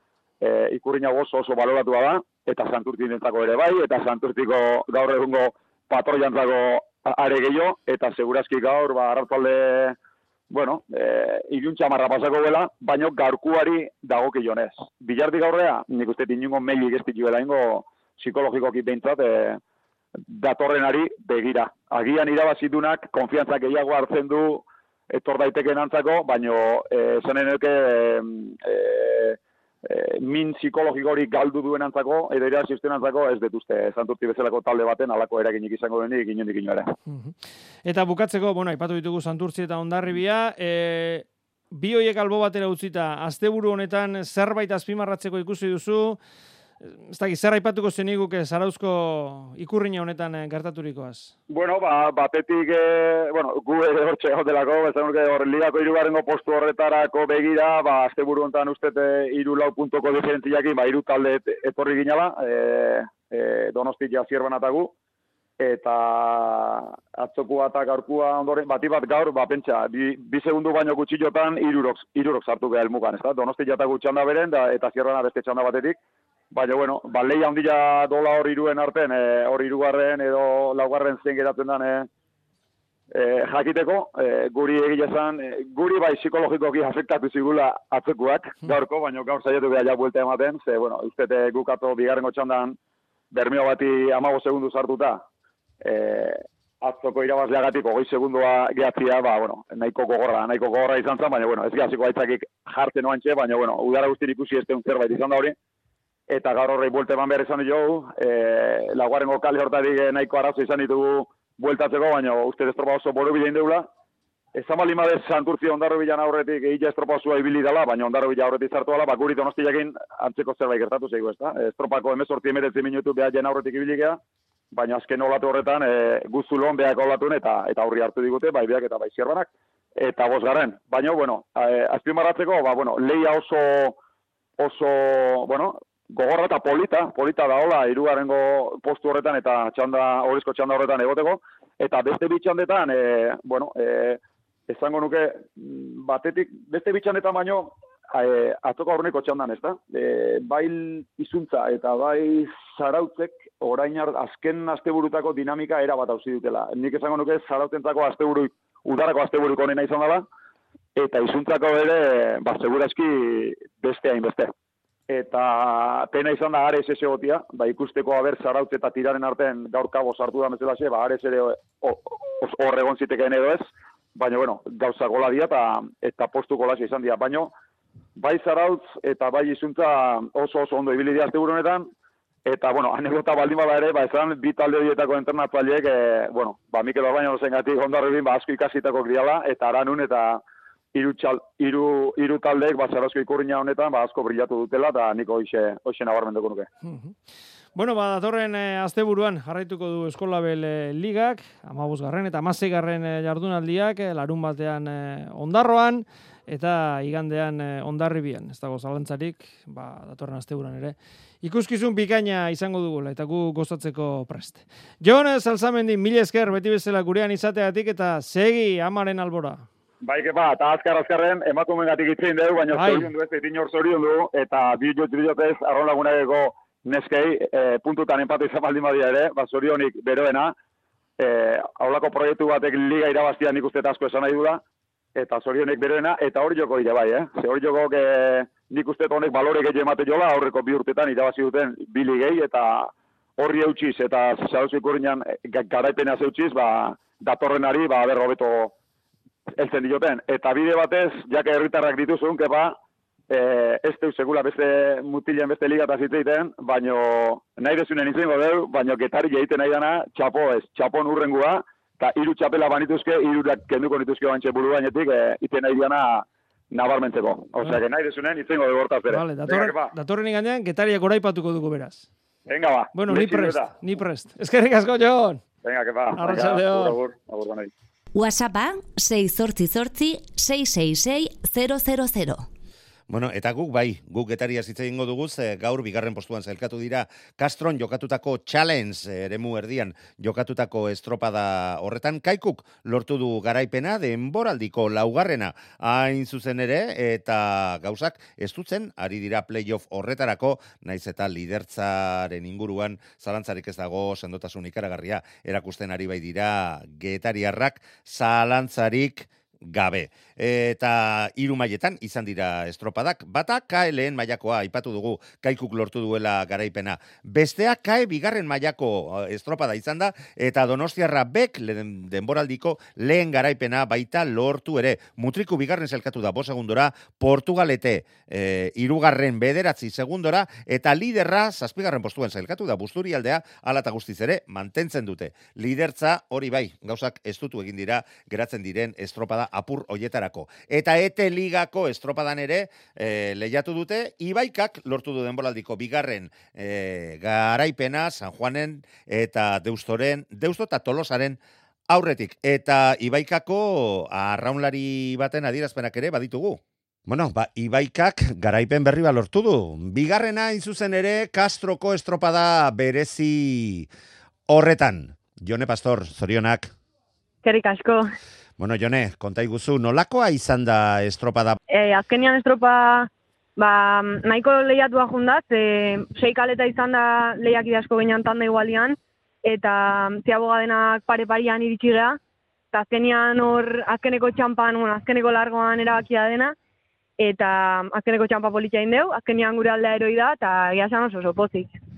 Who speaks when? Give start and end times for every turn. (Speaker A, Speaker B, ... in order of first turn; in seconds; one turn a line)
Speaker A: 0.4-10.0
Speaker A: 10.5-19.6
Speaker A: 20.3-36.9
Speaker B: 37.1-46.2
Speaker B: 46.8-51.3
Speaker A: 51.5-64.9
Speaker A: 65.6-76.0
Speaker A: 76.5-82.1
Speaker A: 83.1-92.8
Speaker A: 93.3-95.2
Speaker A: 95.8-105.6
Speaker A: 106.3-113.9
Speaker A: 114.5-124.2
Speaker A: 124.7-134.0
Speaker A: 134.6-160.3
Speaker A: 161.0-164.5
Speaker A: 165.1-177.5
Speaker A: 178.2-181.9
Speaker A: 182.4-196.7
Speaker B: 196.8-197.2
Speaker B: 197.8-219.7
Speaker A: 220.0-230.6
Speaker B: 222.7-223.1
Speaker A: 231.2-234.6
Speaker A: 235.2-248.8
Speaker A: 249.6-252.8
Speaker A: 253.3-269.9
Speaker B: 269.1-272.1
Speaker A: 272.5-273.8
Speaker B: 272.9-275.4
Speaker A: 275.6-277.7
Speaker B: 276.1-277.0
Speaker C: 278.1-282.5
Speaker D: 283.1-363.9
Speaker D: 364.5-366.7
Speaker E: 367.4-368.1
Speaker D: 368.6-371.6
Speaker E: 371.7-382.2
Speaker E: 382.7-386.6
Speaker E: 387.2-391.7